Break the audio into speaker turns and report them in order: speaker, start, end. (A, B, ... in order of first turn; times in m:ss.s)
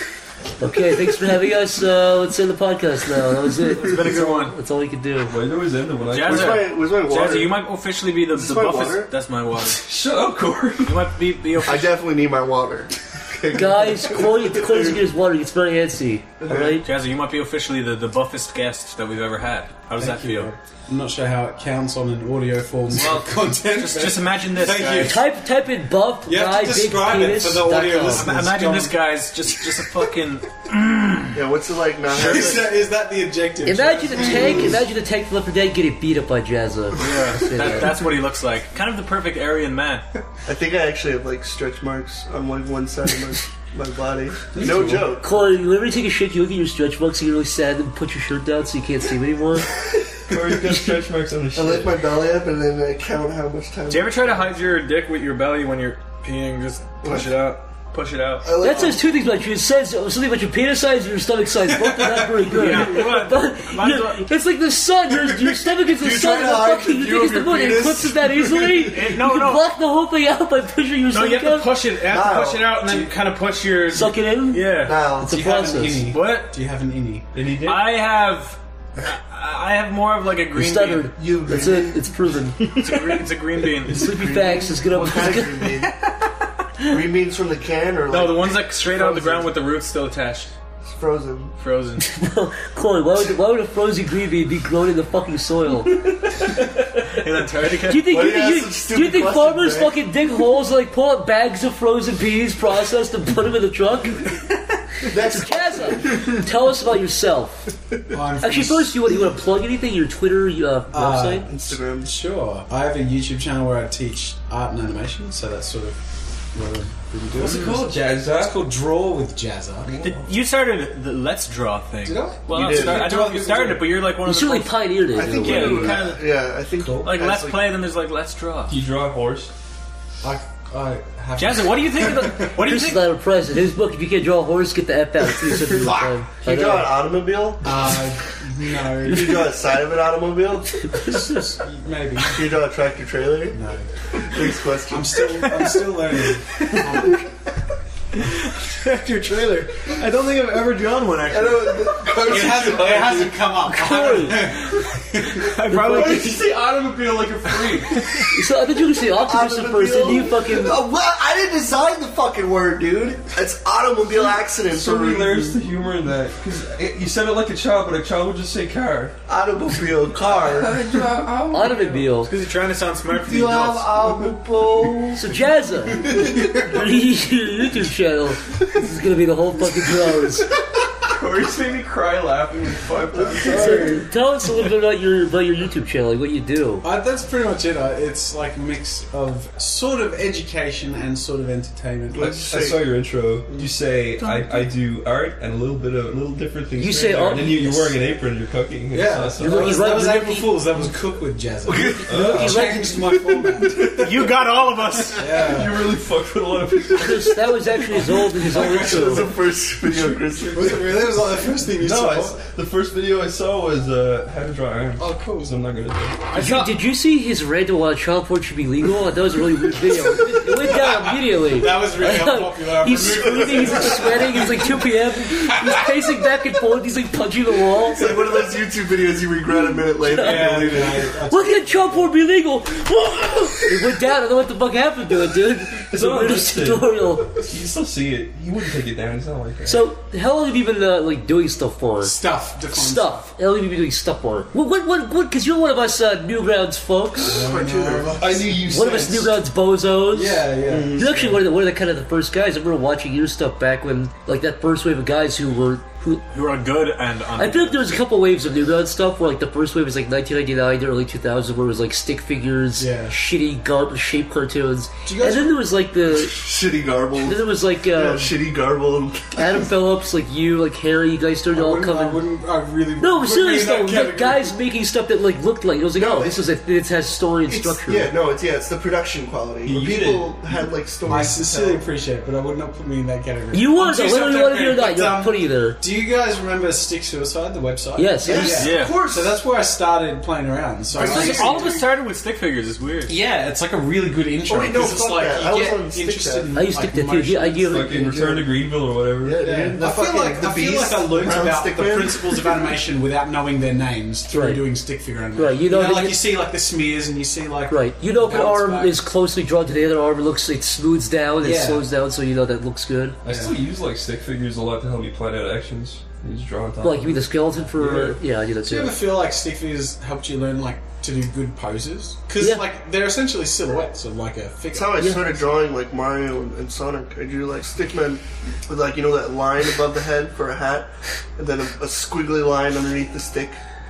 0:00.6-0:05.4 A
0:03.8-0:04.5 B
0:05.2-0:06.6 C
0:06.1-0:09.8 B
0:06.2-0:07.6 D
0:08.3-0:09.1 D
0:09.8-0:11.0 C
0:10.8-0:12.0 B
0:11.6-0:15.0 D
0:13.5-0:16.8 A
0:16.4-0:16.8 D
0:16.8-0:20.5 B
0:20.0-0:25.3 E
0:22.9-0:25.2 B
0:25.0-0:28.3 A
0:26.2-0:29.0 E
0:28.1-0:31.4 B
0:31.3-0:32.8 D
0:32.0-0:34.8 E
0:33.6-0:38.0 A
0:34.2-0:34.8 D
0:37.0-0:40.0 B
0:40.4-0:45.3 D
0:44.5-0:45.1 E
0:45.2-0:49.7 A
0:50.3-0:52.0 C
0:51.5-0:54.5 D
0:53.9-0:58.5 B
0:57.0-0:57.6 D
0:58.4-0:59.0 D
0:58.6-1:11.7 A
1:01.7-1:02.3 E
1:02.5-1:04.2 B
1:05.8-1:09.1 D
1:08.8-1:09.6 B
1:11.1-1:15.0 B
1:12.0-1:12.9 D
1:13.9-1:14.7 A
1:14.8-1:15.4 D
1:15.2-1:16.1 A
1:15.2-1:17.3 E
1:16.1-1:16.5 B
1:17.3-1:17.9 C
1:17.6-1:21.1 B
1:20.5-1:22.6 A
1:21.2-1:22.3 D
1:22.8-1:24.1 B
1:23.8-1:25.9 D
1:23.9-1:25.7 A
1:26.8-1:29.4 D
1:28.1-1:30.5 B
1:30.8-1:31.5 D
1:31.6-1:32.0 B
1:32.0-1:36.0 A
1:36.8-1:38.1 B
1:37.9-1:44.4 A
1:38.0-1:40.0 D
1:45.0-1:46.4 D
1:45.1-1:47.7 A
1:48.1-1:48.9 E
1:48.4-1:51.5 A
1:50.9-1:56.0 E
1:51.5-1:52.1 D
1:56.5-1:59.9 E
1:57.4-1:58.7 C
1:57.4-1:57.7 B
1:59.8-2:00.3 C
2:00.0-2:06.2 B
2:02.0-2:03.9 E
2:02.5-2:03.1 D
2:04.2-2:06.0 A
2:05.1-2:07.7 D
2:06.8-2:07.2 E
2:07.0-2:08.8 B
2:08.7-2:09.5 C
2:10.2-2:12.5 E
2:11.4-2:13.1 B
2:12.6-2:16.9 A
2:15.5-2:16.2 E
2:16.4-2:17.8 D
2:17.6-2:19.5 E
2:18.9-2:21.0 D
2:20.9-2:21.5 A
2:21.1-2:22.6 E
2:22.3-2:23.6 D
2:23.5-2:23.9 E
2:24.2-2:25.4 D
2:24.9-2:27.2 E
2:25.4-2:25.8 B
2:28.1-2:32.2 B
2:31.3-2:33.4 D
2:32.3-2:35.4 E
2:32.4-2:33.2 C
2:33.7-2:34.5 A
2:34.7-2:38.3 B
2:35.7-2:36.4 A
2:36.2-2:36.4 C
2:38.3-2:40.8 A
2:39.0-2:45.6 D
2:44.7-2:49.2 C
2:49.3-2:50.9 D
2:50.2-2:52.0 C
2:51.5-2:52.3 A
2:52.2-2:53.9 B
2:53.2-2:55.2 D
2:54.0-2:54.3 E
2:55.2-2:56.1 A
2:56.0-2:56.8 D
2:56.1-2:56.6 E
2:56.6-3:00.5 A
3:01.1-3:03.8 C
3:03.1-3:04.0 D
3:03.4-3:04.0 E
3:03.5-3:06.8 A
3:06.8-3:12.4 E
3:12.2-3:13.7 D
3:12.2-3:19.7 C
3:16.8-3:18.0 A
3:18.9-3:24.0 E
3:19.4-3:20.6 A
3:21.6-3:22.2 D
3:22.0-3:22.7 C
3:22.2-3:23.0 A
3:23.1-3:23.9 D
3:23.6-3:24.1 C
3:24.0-3:25.4 B
3:25.2-3:25.8 E
3:25.3-3:27.3 C
3:26.9-3:27.4 D
3:27.0-3:29.2 A
3:27.9-3:29.4 E
3:28.0-3:31.1 D
3:29.9-3:32.4 E
3:31.7-3:36.2 C
3:35.0-3:35.6 E
3:36.3-3:36.7 B
3:36.3-3:48.2 A
3:40.4-3:44.8 E
3:43.0-3:44.4 D
3:45.3-3:45.8 E
3:47.8-3:51.2 D
3:50.0-3:50.7 A
3:50.1-3:52.1 E
3:51.2-3:57.3 A
3:55.9-3:59.8 C
3:59.7-4:02.2 A
4:02.0-4:03.3 E
4:02.7-4:07.4 A
4:07.2-4:08.3 D
4:07.3-4:08.6 E
4:08.2-4:09.4 C
4:08.7-4:16.2 A
4:10.1-4:11.4 E
4:10.7-4:11.0 D
4:16.3-4:17.8 B
4:17.4-4:26.3 A
4:22.8-4:23.2 E
4:25.0-4:25.5 E
4:26.1-4:29.7 D
4:27.2-4:28.3 A
4:29.3-4:32.2 A
4:31.5-4:34.5 E
4:33.0-4:38.1 A
4:35.9-4:36.4 D
4:37.5-4:41.9 D
4:39.6-4:40.4 C
4:41.0-4:51.8 E
4:43.5-4:45.8 A
4:48.0-4:48.6 A
4:48.2-4:49.4 D
4:48.6-4:49.0 B
4:50.9-4:51.8 D
4:51.0-4:53.1 B
4:53.1-4:57.7 E
4:54.4-4:56.5 D
4:56.5-4:58.1 A
4:57.7-4:59.4 C
4:57.7-5:02.8 D
4:59.4-5:09.0 E
5:04.3-5:04.6 A
5:05.3-5:06.2 A
5:07.7-5:13.2 A
5:11.4-5:11.9 E
5:13.2-5:13.6 E
5:13.2-5:17.3 C
5:16.8-5:19.0 A
5:17.8-5:25.3 E
5:22.4-5:22.6 A
5:24.7-5:33.6 D